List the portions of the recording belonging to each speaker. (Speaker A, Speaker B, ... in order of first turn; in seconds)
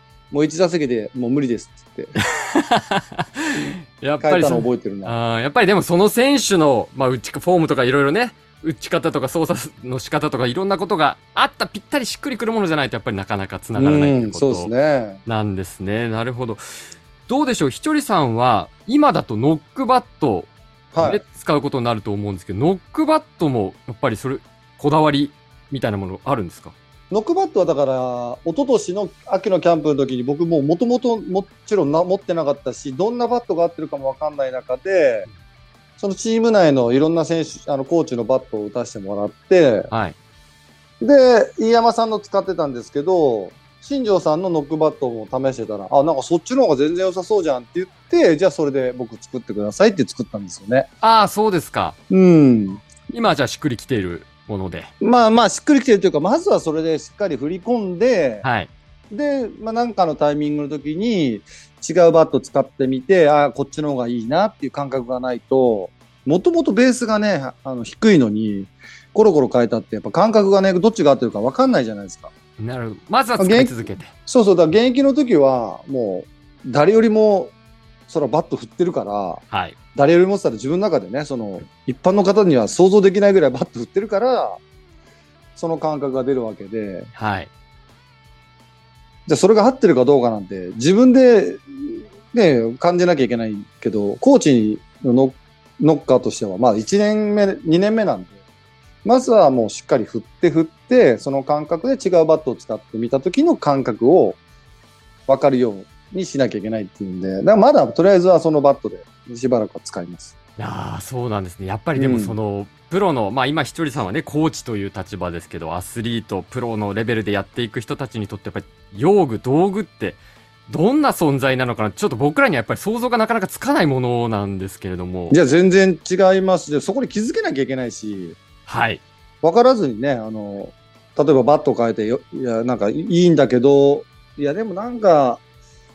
Speaker A: 0.3-2.2, 3.7-5.2, 13.8-15.2, 20.9-21.2, 27.1-35.3, 36.0-39.9, 41.0-50.9, 52.1-52.8, 55.0-58.5, 59.1-72.3, 73.4-77.5, 78.1-79.4, 80.0-84.6, 85.6-87.1, 89.3-98.3, 99.0-104.4, 105.3-110.3, 112.0-112.4, 125.3-128.4, 129.4-135.4
Speaker B: 2.2-14.7, 15.3-26.8, 39.9-40.2, 51.0-52.0, 53.1-54.9, 58.4-58.7, 72.6-74.1, 79.5-79.8, 87.2-87.5, 110.6-125.4, 128.7-129.0